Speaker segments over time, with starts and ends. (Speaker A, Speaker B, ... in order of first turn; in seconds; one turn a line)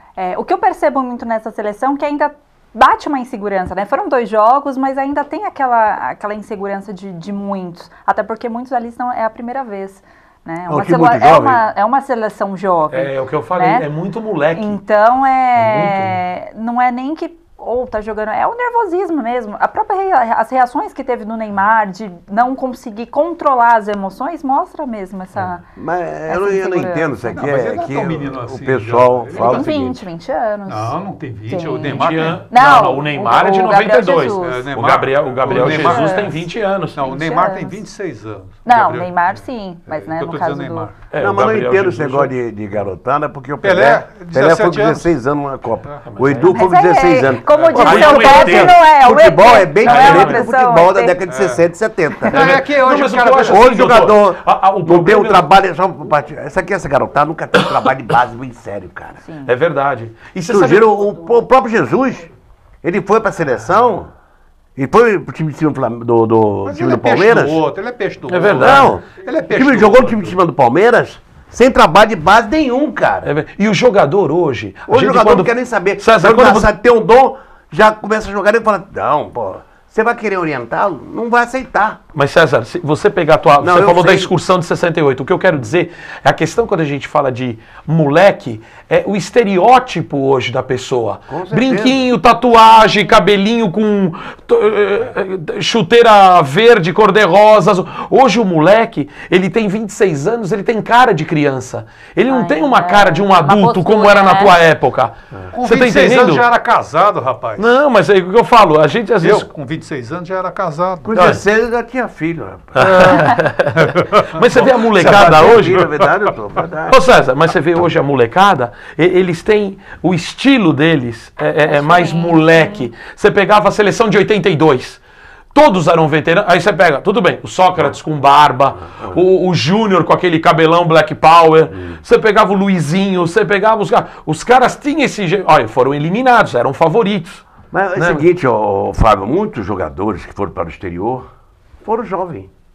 Speaker A: 0.2-13.9
Speaker B: 10.7-11.6
Speaker C: 12.9-14.8
Speaker A: 14.6-25.6
Speaker C: 15.6-16.2
Speaker B: 25.8-30.1
Speaker A: 26.3-27.4
Speaker D: 27.3-29.7
Speaker A: 29.3-34.7
Speaker D: 30.7-32.4
Speaker C: 31.8-37.0
Speaker D: 34.4-36.3
Speaker A: 35.5-36.4
Speaker D: 37.0-41.0
Speaker A: 37.0-37.8
Speaker A: 38.6-40.9
Speaker C: 41.1-42.3
Speaker B: 41.2-52.6
Speaker D: 43.6-45.1
Speaker D: 45.9-46.3
Speaker C: 46.1-46.6
Speaker A: 46.5-51.2
Speaker C: 47.6-48.8
Speaker D: 47.6-47.8
Speaker C: 49.8-50.4
Speaker D: 51.3-51.7
Speaker D: 52.3-53.7
Speaker C: 52.3-55.5
Speaker B: 53.5-59.2
Speaker A: 59.2-59.5
Speaker C: 59.5-60.9
Speaker B: 60.5-62.3
Speaker B: 62.8-64.1
Speaker B: 64.8-67.6
Speaker D: 66.7-70.4
Speaker C: 68.3-69.0
Speaker B: 68.6-73.3
Speaker C: 73.2-76.7
Speaker B: 74.9-82.0
Speaker C: 82.2-106.4
Speaker B: 83.6-84.3
Speaker B: 91.3-92.1
Speaker A: 102.3-104.5
Speaker D: 105.5-107.7
Speaker C: 107.6-109.5
Speaker D: 109.2-111.2
Speaker B: 111.0-113.3
Speaker C: 111.1-111.4
Speaker C: 112.8-115.9
Speaker D: 112.8-114.4
Speaker B: 114.5-117.0
Speaker D: 115.0-116.1
Speaker C: 116.9-125.0
Speaker A: 121.7-122.9
Speaker C: 125.5-138.3
Speaker B: 128.9-129.2
Speaker B: 131.7-132.0
Speaker B: 137.7-141.3
Speaker B: 141.8-142.5